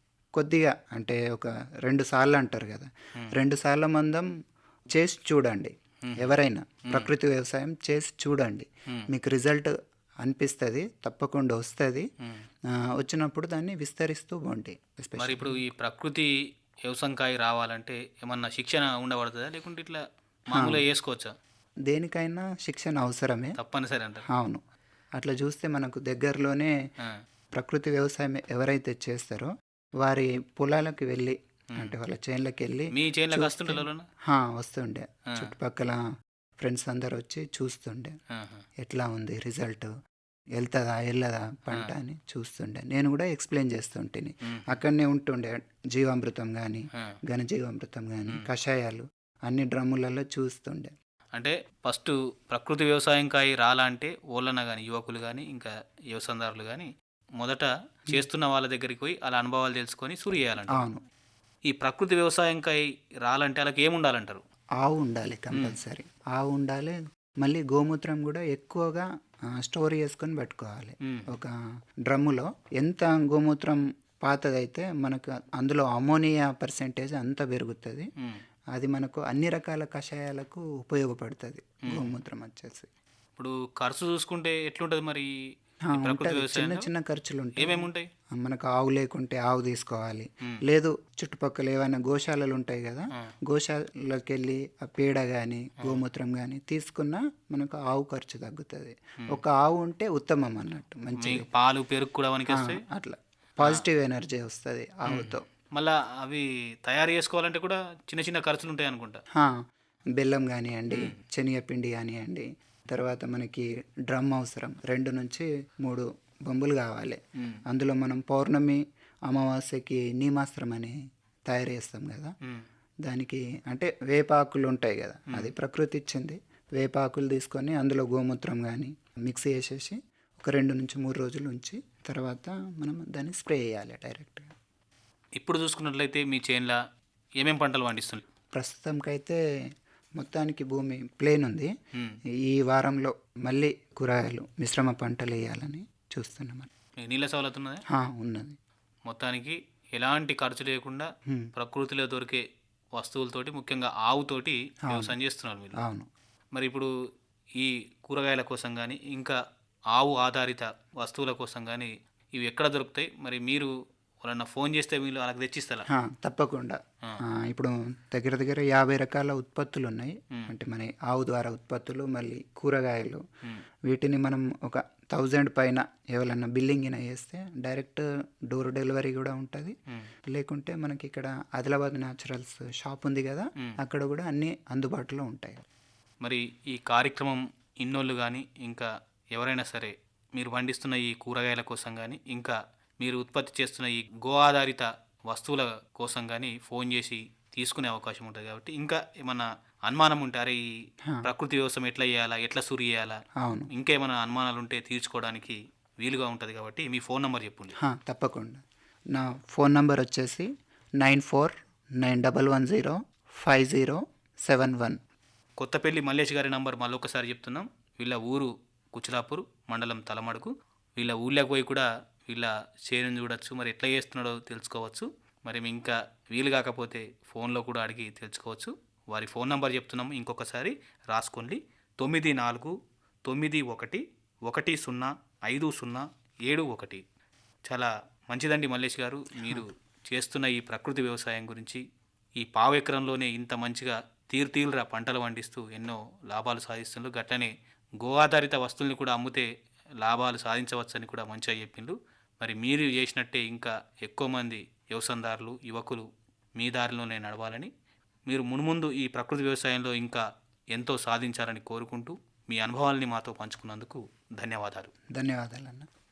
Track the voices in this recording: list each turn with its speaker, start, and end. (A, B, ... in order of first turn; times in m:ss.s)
0:00.4-0:04.3 A
0:04.9-0:12.1 A
0:06.0-0:06.3 B
0:12.8-0:15.7 A
0:15.2-0:16.3 B
0:16.9-0:21.3 B
0:20.5-0:20.8 A
0:21.9-0:23.5 A
0:23.6-0:24.3 B
0:24.3-0:24.6 A
0:25.2-0:26.7 A
0:27.6-0:36.0 A
0:32.9-0:34.1 B
0:36.6-0:38.2 A
0:38.3-0:38.6 B
0:38.8-0:39.9 A
0:40.6-0:50.9 A
0:44.5-0:44.8 B
0:51.4-1:00.9 B
1:00.7-1:01.0 A
1:01.7-1:04.4 B
1:04.8-1:11.6 A
1:05.5-1:05.8 B
1:12.1-1:18.1 A
1:18.8-1:22.9 A
1:21.8-1:22.2 B
1:23.4-1:25.3 B
1:25.9-1:41.5 A
1:25.9-1:26.9 B
1:27.6-1:28.1 B
1:41.2-1:42.8 B
1:42.5-1:45.4 A
1:45.1-1:49.2 B
1:50.2-2:01.0 A
1:50.9-1:51.2 B
2:01.5-2:02.3 A
2:03.1-2:14.5 A
2:15.4-2:16.8 B
2:17.4-2:18.2 B
2:18.5-2:19.4 A
2:20.2-2:21.7 A
2:22.5-2:26.7 A
2:27.0-2:27.8 B
2:27.9-2:28.6 A
2:29.1-2:32.4 B
2:33.0-2:35.8 B
2:34.9-2:35.2 A
2:35.8-2:36.1 A
2:36.5-2:36.9 B
2:37.6-2:39.4 B
2:39.9-2:43.7 B
2:44.2-2:45.9 B
2:45.9-2:53.2 A
2:53.9-2:59.8 A
3:00.3-3:05.6 A
3:06.2-3:20.6 B
3:21.2-3:23.2 B
3:23.4-3:23.7 A
3:23.7-3:27.8 B
3:27.8-3:28.6 A
3:29.1-3:30.5 A
3:31.0-3:35.0 A
3:35.6-3:52.7 B
3:53.3-3:57.0 B
3:57.7-4:01.8 B
3:59.4-3:59.6 A
4:02.4-4:09.5 B
4:10.0-4:17.7 B
4:18.3-4:24.9 B
4:25.2-4:25.9 A